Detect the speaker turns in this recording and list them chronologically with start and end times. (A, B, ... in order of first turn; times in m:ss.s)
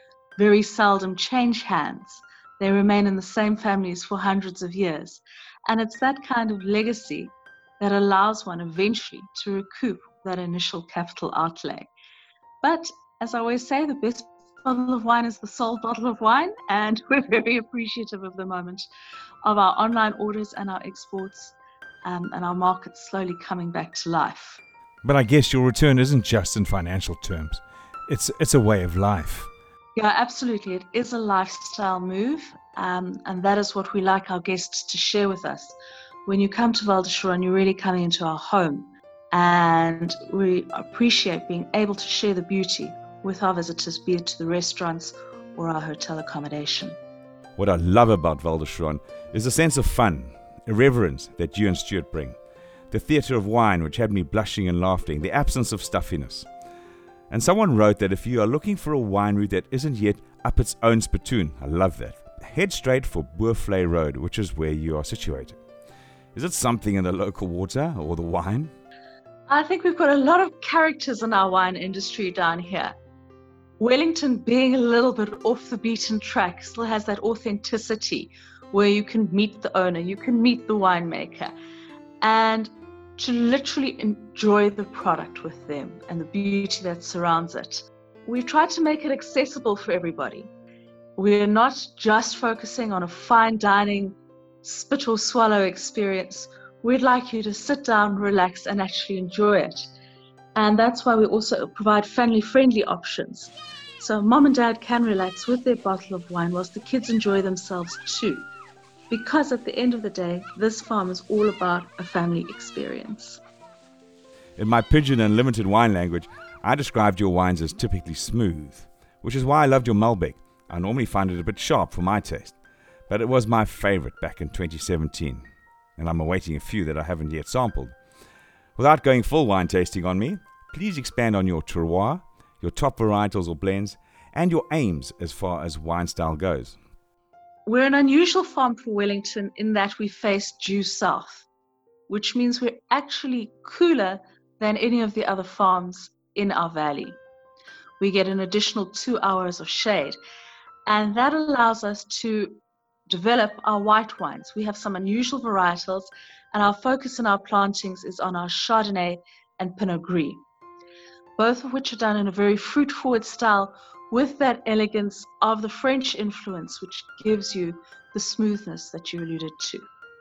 0:00.4-0:11.9 A
0:12.6-0:18.9 A
0:19.4-0:24.6 A
0:25.0-0:29.5 B
0:30.0-0:47.0 A
0:47.6-0:52.4 B
0:52.9-0:56.5 B
0:57.3-1:05.6 B
1:06.4-1:08.7 B
1:09.5-1:12.9 A
1:13.8-1:21.5 A
1:22.2-1:30.5 A
1:31.2-1:39.9 A
1:40.6-1:48.5 A
1:49.1-1:53.4 A
1:54.6-2:02.6 B
2:03.1-2:05.4 B
2:06.0-2:08.0 B
2:08.8-2:16.8 B
2:17.7-2:21.5 A
2:22.1-2:27.2 A
2:28.0-2:30.2 A
2:30.9-2:40.4 A
2:41.4-2:49.8 A